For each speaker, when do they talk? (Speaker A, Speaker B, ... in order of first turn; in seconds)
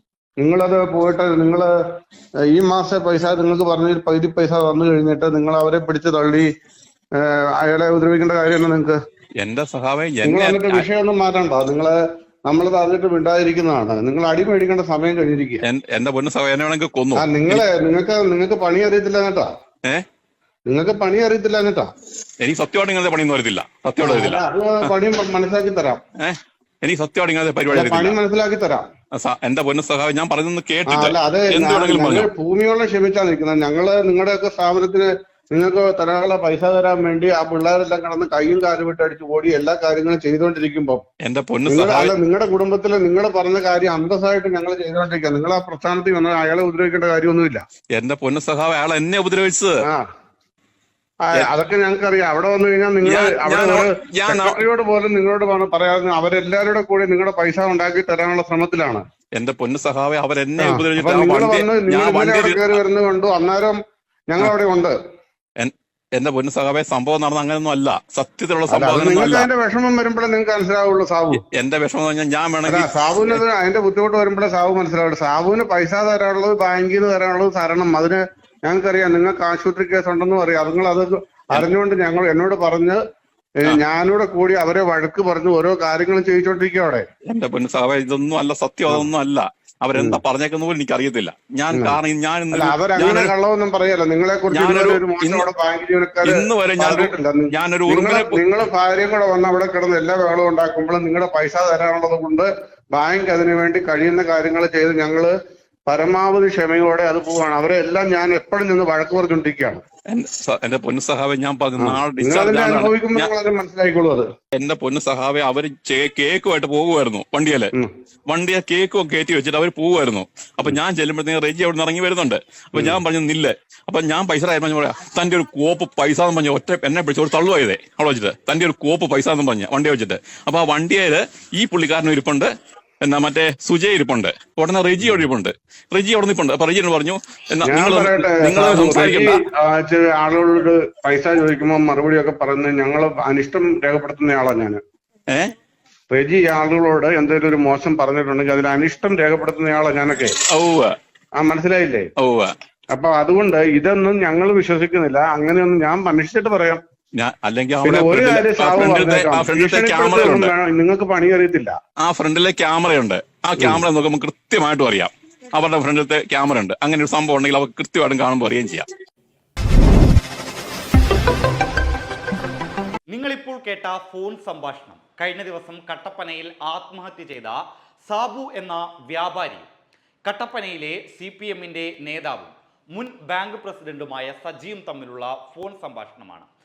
Speaker A: 0.4-1.7, 2.5-6.5, 7.2-9.0, 10.2-11.9, 12.5-15.6, 17.2-19.5, 20.7-21.9, 24.0-26.0, 27.7-28.9, 30.9-41.0, 41.7-47.6, 51.2-59.0, 60.6-63.8, 64.3-65.0, 68.7-71.4, 72.7-83.0, 83.6-87.0, 90.0-90.2, 91.7-92.0, 92.5-105.3, 105.9-109.8, 111.8-114.3, 137.7-144.8, 146.1-150.4, 151.4-152.1, 152.9-156.8, 157.8-161.8
Speaker B: 9.4-10.8, 15.6-17.6, 22.4-24.9, 26.2-28.2, 29.1-32.3, 41.2-42.1, 48.0-49.8, 53.0-54.6, 59.4-62.8, 65.6-69.5, 71.4-73.4, 87.2-93.3, 94.5-95.5, 96.2-98.4, 110.1-113.3, 114.5-117.7, 118.3-132.5, 133.0-139.4, 150.5-150.9, 152.2-152.5, 157.2-160.5, 162.0-168.9
Speaker C: 173.1-179.7, 180.3-186.5